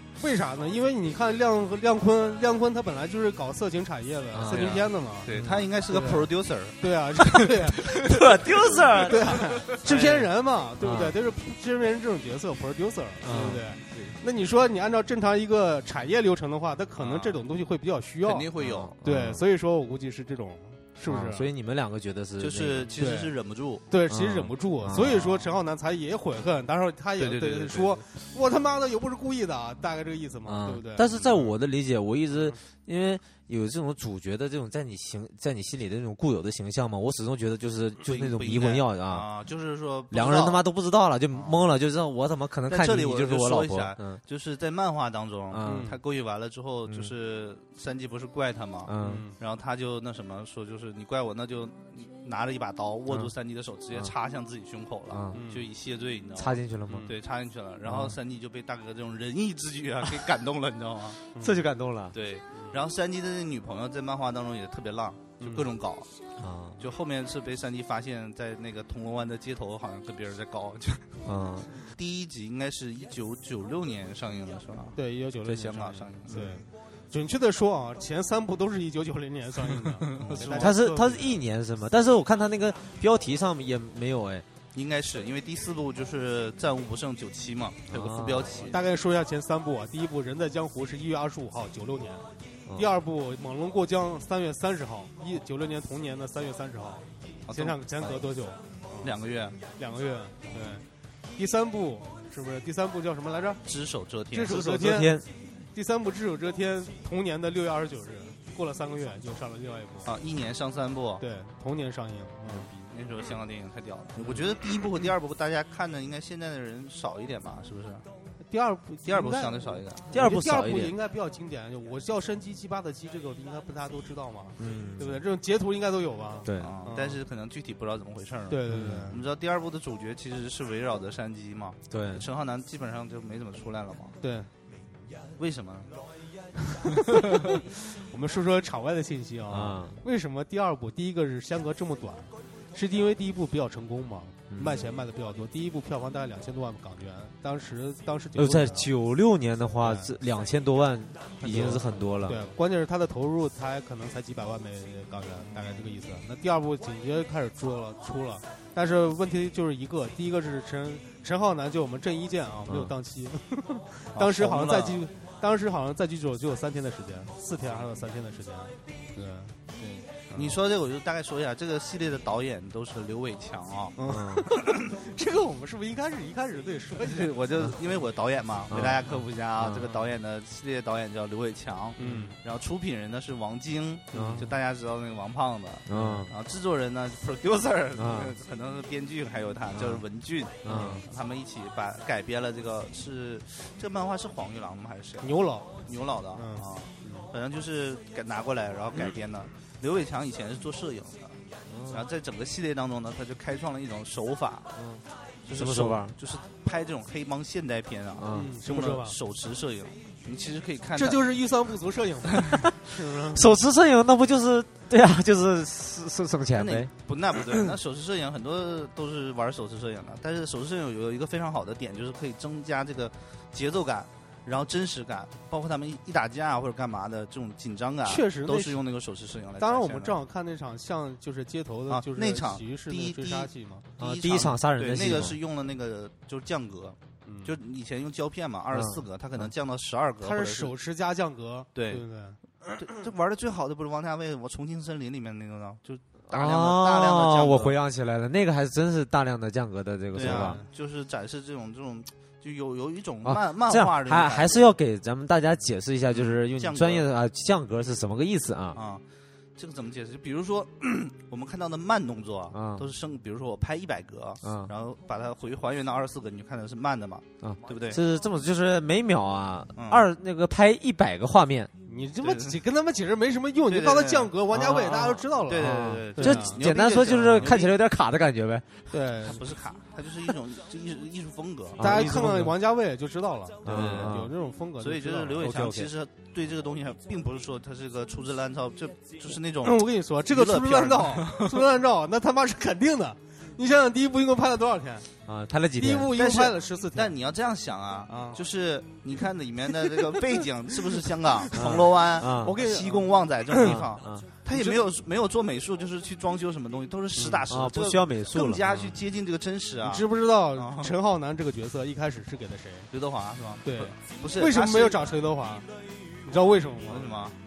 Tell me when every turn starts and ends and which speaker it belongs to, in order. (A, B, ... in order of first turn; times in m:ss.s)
0:00.2-0:05.3 A
0:04.3-0:05.7 B
0:04.5-0:09.1 C
0:05.9-0:06.3 A
0:06.8-0:08.0 A
0:07.8-0:09.5 B
0:09.0-0:18.5 A
0:09.8-0:10.3 C
0:10.8-0:11.2 B
0:13.2-0:13.7 B
0:17.0-0:17.4 C
0:18.2-0:18.9 C
0:18.6-0:19.4 B
0:19.0-0:21.5 A
0:21.1-0:22.9 B
0:22.4-0:23.8 C
0:23.0-0:23.3 A
0:23.9-0:31.3 A
0:24.1-0:25.4 B
0:27.2-0:28.0 C
0:30.5-0:39.3 B
0:38.0-0:40.6 C
0:40.1-0:44.2 B
0:42.7-1:01.2 C
0:45.5-0:45.9 B
0:45.6-0:46.0 A
0:48.9-0:49.2 B
0:49.0-0:49.4 A
0:55.1-0:55.4 B
0:55.3-0:55.7 A
0:56.4-0:57.1 B
0:56.9-0:57.1 A
0:57.9-0:58.2 B
1:01.3-1:01.6 A
1:01.4-1:02.2 B
1:02.1-1:06.1 C
1:05.4-1:05.7 A
1:06.4-1:06.8 B
1:06.8-1:11.2 C
1:11.2-1:11.7 B
1:11.8-1:16.6 C
1:15.0-1:21.4 A
1:19.7-1:20.8 C
1:20.5-1:24.5 B
1:24.7-1:28.8 C
1:27.9-1:28.7 B
1:28.7-1:39.2 A
1:32.7-1:32.9 B
1:37.5-1:38.2 C
1:39.0-1:39.6 C
1:39.8-1:43.6 A
1:43.6-1:44.7 C
1:44.3-1:50.1 A
1:44.5-1:45.3 B
1:50.0-1:51.2 C
1:51.2-1:52.9 A
1:52.9-1:58.0 C
1:58.4-2:07.2 A
1:59.1-2:00.0 C
2:00.1-2:00.9 B
2:04.6-2:05.2 B
2:06.4-2:06.8 B
2:06.6-2:14.2 C
2:08.5-2:09.2 A
2:08.7-2:09.1 B
2:11.9-2:12.2 B
2:14.2-2:14.5 A
2:15.4-2:15.9 C
2:16.6-2:28.9 A
2:19.5-2:20.0 B
2:24.5-2:24.9 B
2:28.4-2:32.5 B
2:29.8-2:30.2 A
2:31.4-2:50.6 A
2:31.5-2:31.8 C
2:42.7-2:42.9 B
2:44.2-2:45.0 C
2:50.3-2:54.0 C
2:54.0-2:57.3 A
2:54.1-2:54.5 B
2:57.0-3:24.7 C
2:58.7-2:59.9 B
3:02.0-3:02.4 A
3:02.0-3:02.3 B
3:04.1-3:04.5 B
3:04.1-3:04.5 A
3:05.9-3:06.3 B
3:05.9-3:06.3 A
3:08.0-3:08.4 B
3:09.8-3:10.0 B
3:10.6-3:11.1 B
3:10.7-3:11.0 A
3:15.2-3:15.7 A
3:16.3-3:17.3 A
3:21.7-3:22.1 B
3:24.8-3:26.2 B
3:25.4-3:31.2 C
3:28.2-3:28.6 B
3:28.3-3:29.2 A
3:31.0-3:33.5 A
3:33.3-3:36.9 B
3:36.5-3:50.2 C
3:48.1-3:48.8 A
3:49.6-3:53.8 A
3:51.9-4:00.7 C
3:54.0-3:55.4 B
3:57.3-3:57.6 A
3:58.7-3:59.0 B
4:00.2-4:02.8 A
4:01.8-4:02.0 C
4:02.8-4:07.8 C
4:06.3-4:10.6 B
4:10.1-4:14.7 C
4:10.2-4:10.7 A
4:13.2-4:18.8 B
4:16.1-4:17.1 C
4:18.7-4:19.0 C
4:19.6-4:28.0 C
4:22.5-4:22.9 B
4:24.4-4:24.7 B
4:27.4-4:31.7 B
4:29.8-4:30.1 C
4:31.9-4:36.6 A
4:32.2-4:32.6 C
4:33.7-4:34.3 C
4:34.5-4:38.9 B
4:35.4-4:37.7 C
4:38.9-4:39.4 A
4:39.2-4:42.1 C
4:41.8-4:42.6 B
4:41.8-4:45.4 A
4:43.6-4:44.3 B
4:43.7-4:44.2 C
4:44.8-4:51.6 C
4:45.4-4:45.9 B
4:49.6-4:55.1 A
4:55.3-4:56.1 B
4:55.8-4:57.1 A
4:56.1-5:10.9 C
4:58.1-4:58.4 A
5:01.5-5:02.6 B
5:02.3-5:03.8 A
5:03.6-5:04.3 B
5:04.5-5:04.8 A
5:07.2-5:07.5 A
5:07.5-5:09.0 B
5:09.8-5:12.9 A
5:12.9-5:15.0 C
5:13.6-5:15.7 A
5:16.2-5:17.2 A
5:16.9-5:17.4 C